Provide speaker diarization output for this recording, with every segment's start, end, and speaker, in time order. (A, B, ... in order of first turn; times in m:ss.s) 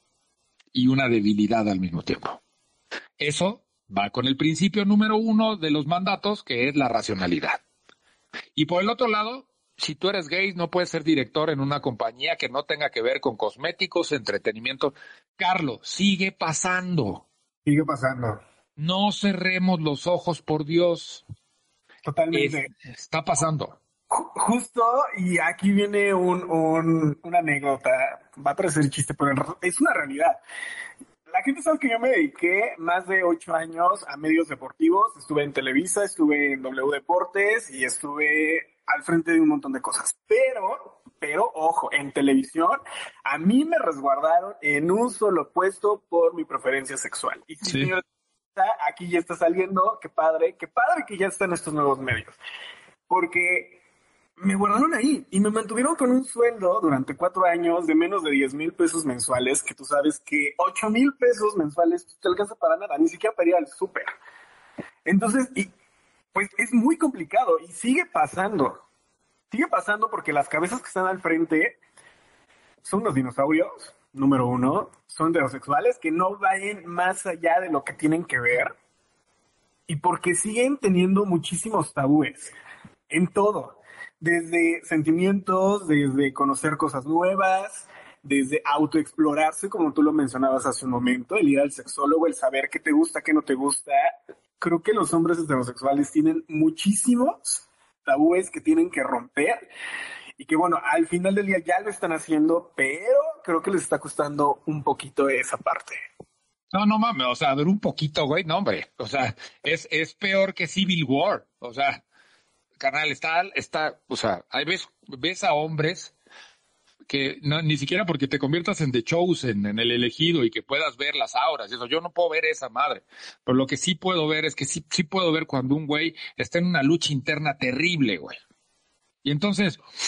0:00.7-0:02.4 A
0:03.2-0:07.6 A
0:08.5-0:17.2 A
0:17.6-0:18.4 B
0:18.8-0:21.2 A
0:22.0-0:22.7 B
0:22.3-0:23.8 A
0:24.1-0:30.4 B
0:31.3-0:48.0 B
0:47.6-0:47.9 A
0:48.5-0:52.4 B
0:53.1-0:53.8 B
0:54.4-1:04.1 B
1:05.0-1:05.7 B
1:06.3-1:08.8 B
1:09.5-1:11.8 B
1:12.8-1:18.7 B
1:19.9-1:22.5 B
1:23.1-1:39.6 B
1:40.4-1:46.0 B
1:46.7-1:52.0 A
1:52.8-1:56.1 A
1:57.1-2:08.4 A
2:09.2-2:09.8 A